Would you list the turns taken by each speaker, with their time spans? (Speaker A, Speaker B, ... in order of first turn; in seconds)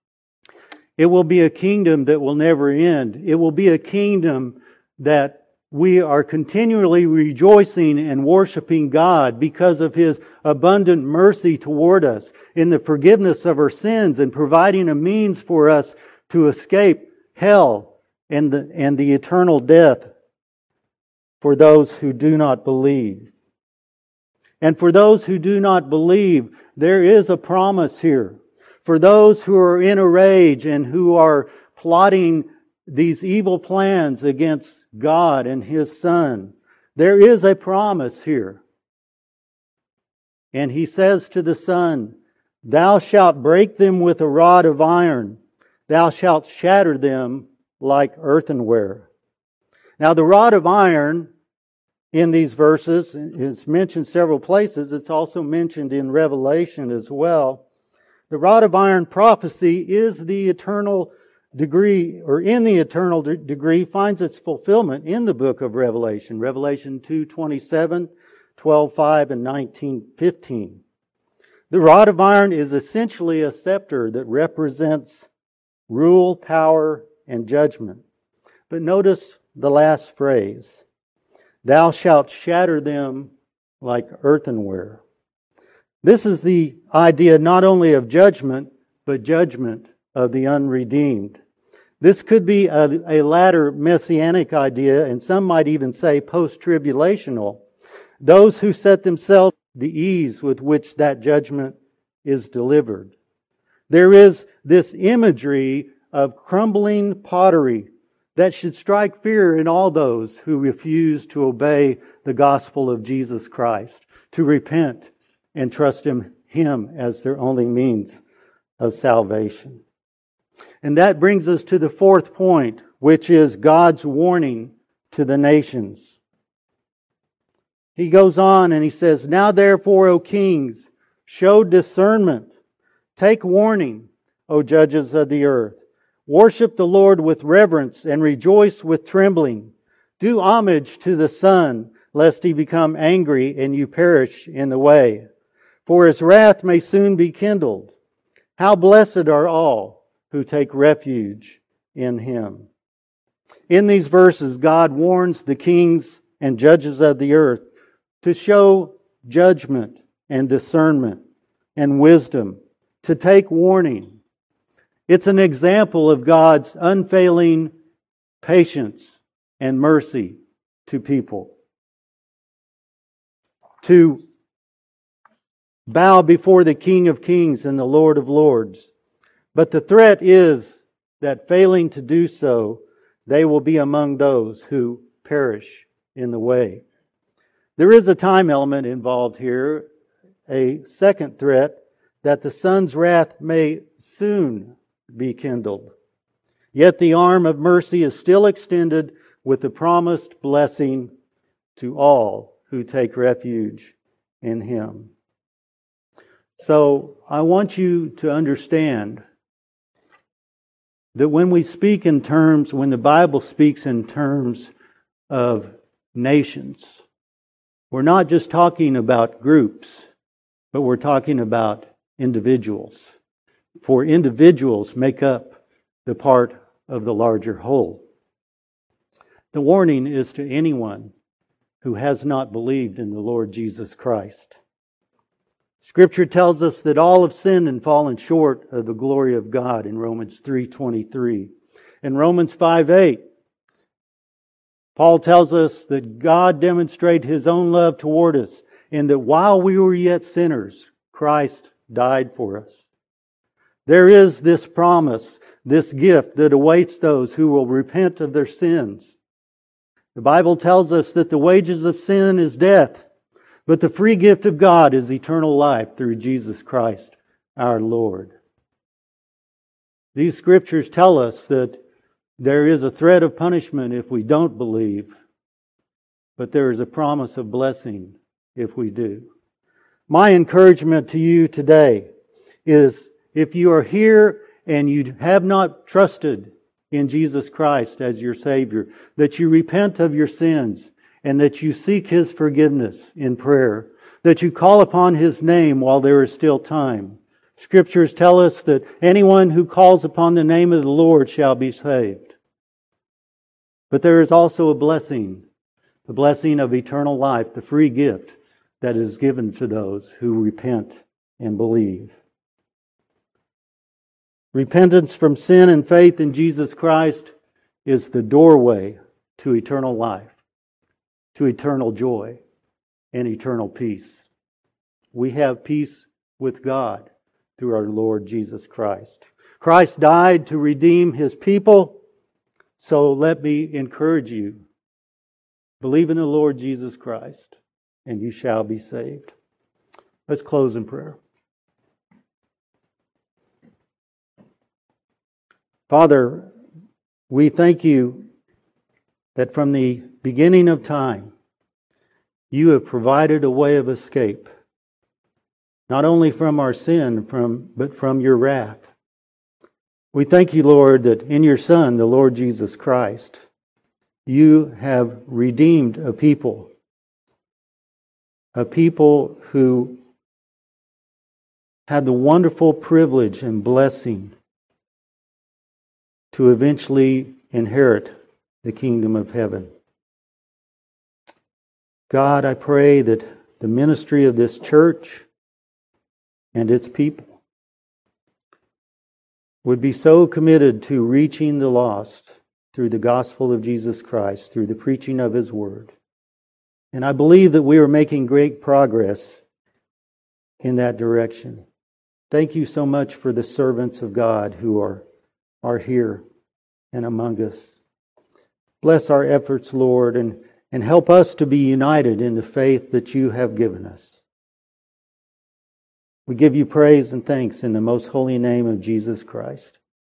Speaker A: 1.0-20.1, 21.4-23.3, 24.6-38.6, 40.5-49.1, 50.0-51.3, 52.1-57.6, 58.3-70.8, 71.7-75.3, 75.9-78.0, 78.7-80.8, 81.6-85.0, 86.0-91.4, 92.0-97.6, 98.2-103.1, 103.9-118.2, 118.8-119.8, 120.8-126.2, 128.0-132.5, 133.2-145.3, 145.9-147.9, 148.6-152.7, 153.7-157.6, 158.2-161.2, 161.8-164.2, 165.1-167.7, 168.4-171.5, 173.8-174.2, 175.9-178.9, 179.5-186.8, 187.8-189.9, 190.5-195.9, 196.7-201.1, 201.8-205.1, 206.6-209.2, 211.2-214.7, 215.3-217.0, 217.9-220.1, 220.7-223.1, 223.8-228.0, 229.5-231.1, 231.8-234.6, 235.8-241.5, 242.0-243.2, 245.0-252.8, 253.9-259.1, 260.1-263.0, 263.7-268.3, 270.1-271.8, 272.4-275.1, 276.4-279.3, 280.1-282.1, 282.7-302.4, 303.9-305.4, 306.1-312.2, 314.5-317.3, 317.9-320.4, 321.4-322.4, 323.1-324.2, 325.1-327.1, 327.6-332.0, 332.8-334.6, 335.8-339.3, 340.3-341.2, 345.9-346.5, 347.3-348.2, 349.4-351.3, 352.5-354.5, 355.9-358.9, 360.1-363.4, 364.3-366.7, 368.6-370.0, 371.9-374.3, 376.3-379.7, 382.1-385.3, 386.5-387.3, 389.6-395.9, 396.9-399.4, 400.6-401.6, 402.3-405.0, 405.6-406.2, 406.9-407.7, 408.8-414.2, 416.3-419.8